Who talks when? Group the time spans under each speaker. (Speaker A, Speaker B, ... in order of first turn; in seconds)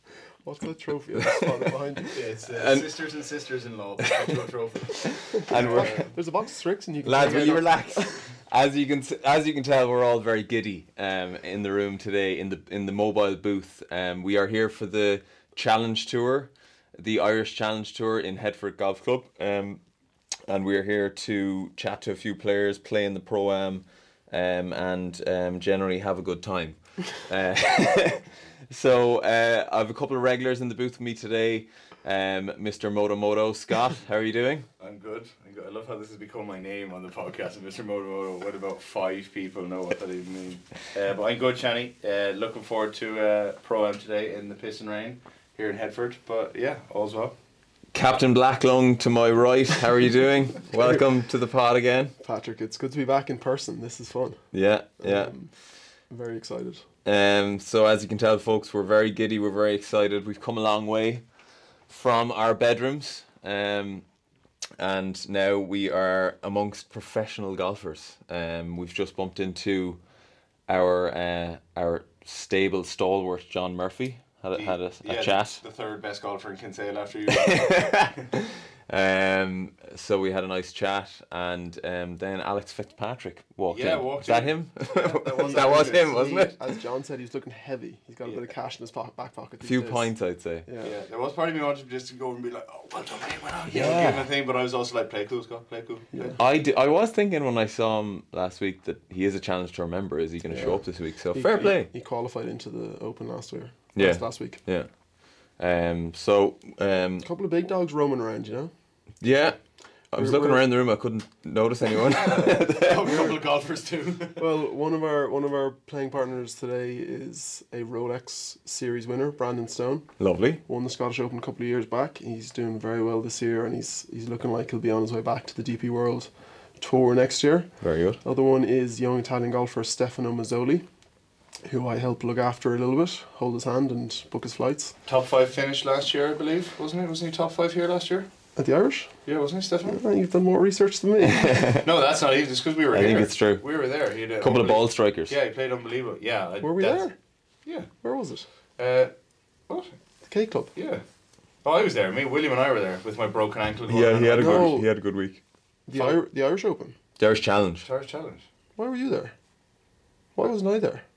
Speaker A: 0.4-2.2, 5.5-8.2, 52.2-54.4, 55.0-55.5, 56.1-56.8, 85.4-90.1, 90.7-90.9, 96.1-96.4, 100.5-104.6, 107.2-108.7, 110.1-110.6, 113.1-113.4, 114.4-130.9, 131.7-134.9, 138.6-139.1, 139.9-141.7, 146.6-147.2, 148.0-148.5, 150.3-150.7, 154.4-154.9, 155.9-156.9, 158.8-159.3, 160.3-161.0
Speaker B: 1.2-1.7, 2.5-3.0, 4.1-4.3, 5.0-6.1, 7.0-19.8, 20.5-34.7, 47.9-52.1, 54.5-55.3, 57.0-61.2, 61.9-64.0, 64.8-70.0, 70.7-75.6, 77.4-86.5, 89.6-90.7, 93.7-94.3, 96.4-101.9, 104.0-104.9, 105.6-107.3, 109.2-109.6, 110.1-113.2, 120.2-120.6, 127.8-128.2, 141.2-141.9, 142.9-143.6, 144.4-145.3, 153.9-155.4, 157.2-157.9
Speaker C: 2.1-6.1, 34.8-47.4, 74.6-78.2, 83.7-86.1, 90.8-96.4, 112.1-114.4, 135.1-138.3, 139.3-140.0, 141.8-147.1, 148.8-149.1, 150.8-151.0, 151.6-154.8, 155.9-156.2, 157.8-158.4